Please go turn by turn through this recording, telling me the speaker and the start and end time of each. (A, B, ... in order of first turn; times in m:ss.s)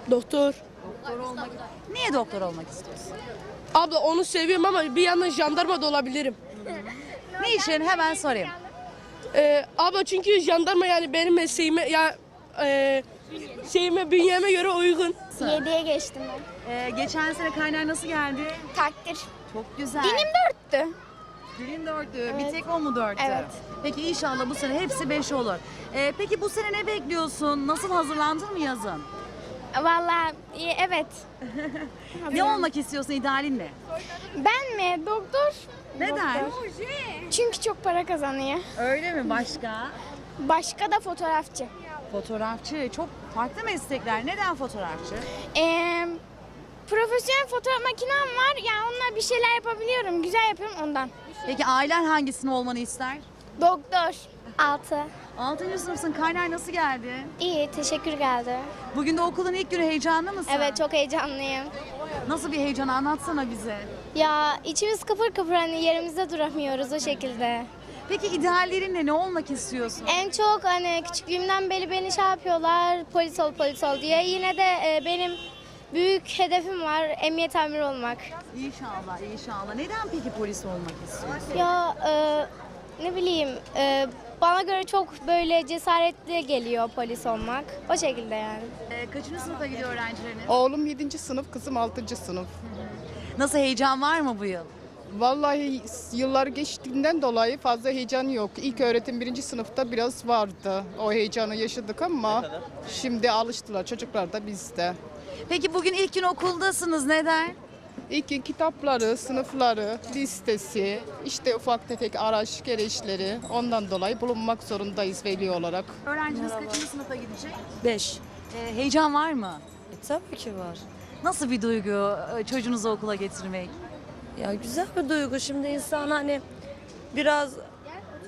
0:00.1-0:00.6 A
0:00.9-0:03.1 B
0:03.7-0:06.4 A
0:06.6-0:08.6 B
0:09.3-0:13.0 A
0:13.6-0:15.2 A
0:15.4-0:16.5 C
0:16.6-0:18.7 B
0:18.7-0:19.3 C
0:19.5-0:20.3 B
0:20.0-0:21.0 C
0:21.6-0:29.1 B
0:22.3-0:22.6 C
0:23.2-0:23.5 C
0:29.8-0:31.2 C
0:31.6-0:33.8 B
0:32.2-0:32.7 C
0:34.4-0:36.6 C
0:36.0-0:37.3 B
0:37.4-0:38.6 C
0:38.8-0:40.0 B
0:40.4-0:41.7 C
0:42.1-0:45.3 B
0:45.5-0:46.2 C
0:46.9-0:51.1 C
0:51.5-0:53.2 B
0:53.6-0:55.1 C
0:55.4-0:57.3 B
0:57.4-0:58.7 C
0:58.9-1:00.8 B
1:00.5-1:01.7 C
1:02.3-1:03.9 B
1:04.1-1:07.7 C
1:08.1-1:10.2 B
1:10.1-1:15.4 C
1:15.9-1:18.3 C
1:18.5-1:21.6 B
1:21.5-1:28.8 C
1:28.9-1:30.6 B
1:30.5-1:32.5 D
1:32.9-1:34.7 B
1:35.1-1:45.0 D
1:45.5-1:47.6 B
1:48.1-1:55.9 D
1:56.0-1:57.6 B
1:56.3-1:56.8 E
1:57.8-1:58.2 E
1:58.5-1:59.6 B
1:59.9-2:00.8 E
2:01.2-2:03.8 B
2:04.4-2:06.4 E
2:07.1-2:07.7 E